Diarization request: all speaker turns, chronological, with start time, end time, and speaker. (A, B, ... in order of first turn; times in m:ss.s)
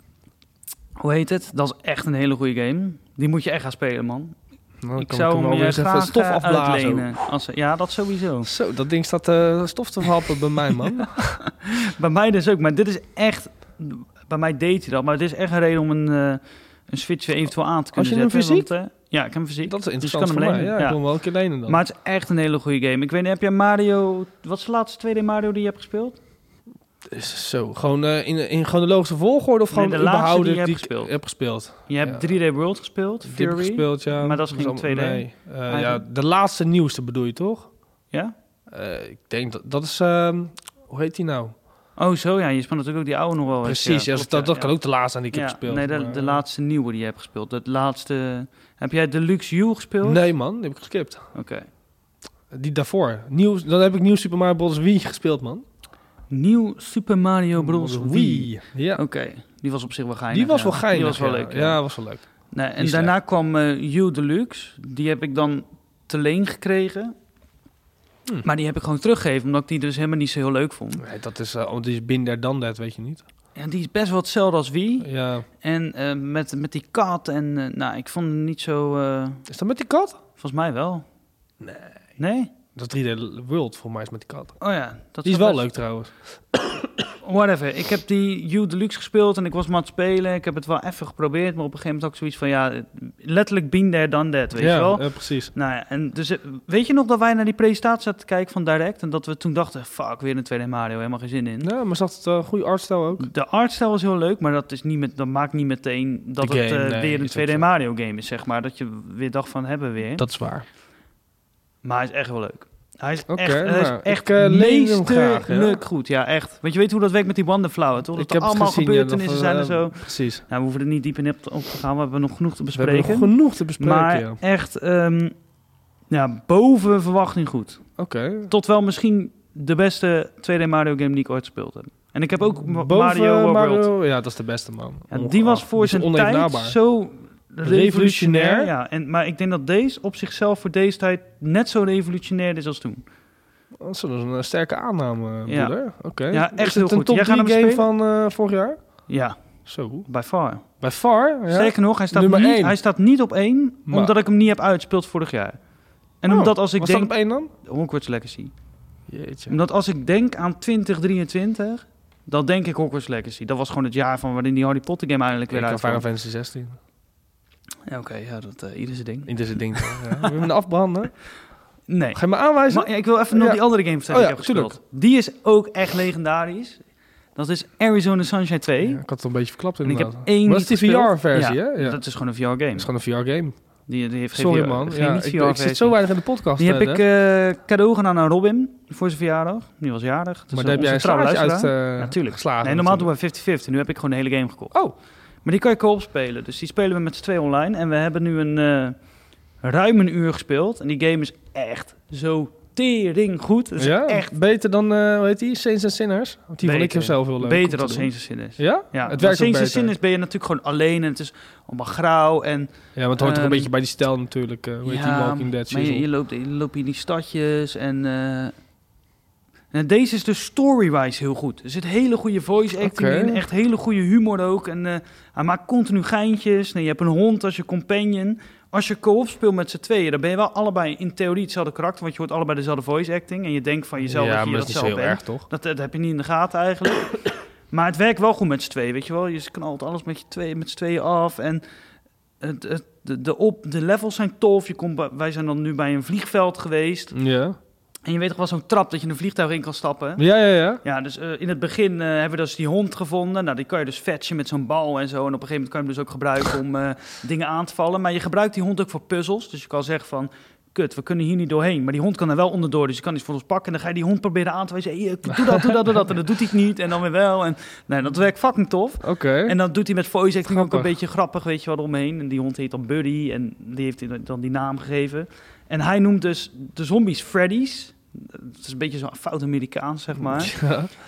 0:01.0-0:04.4 A
0:04.8-0:07.2 B
0:05.0-0:08.5 A
0:08.4-0:11.4 B
0:11.6-0:21.0 A
0:18.0-0:18.7 B
0:19.7-0:21.8 B
0:21.7-0:26.2 A
0:27.1-0:32.3 B
0:29.7-0:31.1 A
0:31.9-0:36.0 A
0:33.2-0:37.7 B
0:38.7-0:41.5 B
0:42.0-0:44.7 A
0:43.6-0:46.4 B
0:45.3-0:50.2 A
0:50.0-0:51.3 B
0:51.3-0:51.7 A
0:52.5-0:55.6 B
0:56.3-1:01.8 A
0:57.6-0:59.0 B
1:00.3-1:03.1 B
1:02.5-1:07.1 A
1:08.4-1:11.0 A
1:11.0-1:13.2 B
1:13.6-1:15.1 A
1:15.0-1:15.5 B
1:15.6-1:19.4 A
1:19.5-1:20.2 B
1:20.4-1:21.0 A
1:21.6-1:22.0 B
1:22.2-1:22.5 A
1:22.8-1:24.6 B
1:24.6-1:25.6 A
1:25.2-1:27.1 B
1:27.2-1:41.7 A
1:34.6-1:35.5 B
1:41.6-1:43.3 B
1:43.2-1:50.3 A
1:46.4-1:47.7 B
1:50.2-1:50.6 B
1:51.8-2:05.3 A
1:53.3-1:55.8 B
1:58.2-2:00.4 B
2:02.8-2:04.4 B
2:06.1-2:07.9 A
2:08.0-2:08.5 B
2:08.5-2:13.9 A
2:12.4-2:16.8 B
2:15.1-2:23.0 A
2:17.6-2:18.7 B
2:23.8-2:28.8 B
2:25.5-2:27.9 A
2:29.1-2:29.4 A
2:29.7-2:30.1 B
2:30.0-2:30.6 A
2:30.8-2:32.8 B
2:31.5-2:35.6 A
2:36.2-2:38.5 A
2:36.3-2:37.5 B
2:39.1-2:39.5 B
2:39.5-2:46.0 A
2:45.5-2:46.8 B
2:47.9-2:50.3 A
2:49.3-2:51.1 B
2:51.9-2:56.8 A
2:52.2-2:54.8 B
2:57.4-2:59.0 A
2:58.8-3:02.0 B
2:59.8-3:02.9 A
3:02.8-3:03.6 B
3:03.9-3:06.0 A
3:04.4-3:07.0 B
3:06.6-3:14.9 A
3:10.5-3:13.1 B
3:15.4-3:19.0 A
3:19.6-3:24.3 A
3:23.8-3:29.9 B
3:26.6-3:33.7 A
3:33.0-3:36.1 B
3:34.8-3:38.5 A
3:39.7-4:01.6 A
3:42.8-3:43.4 B
3:54.0-3:55.5 B
4:02.4-4:07.1 A
4:07.1-4:07.6 B
4:08.1-4:10.2 A
4:10.2-4:10.8 B
4:10.8-4:40.6 A
4:25.3-4:26.0 B
4:29.0-4:29.6 B
4:30.5-4:30.9 B
4:40.2-4:40.9 B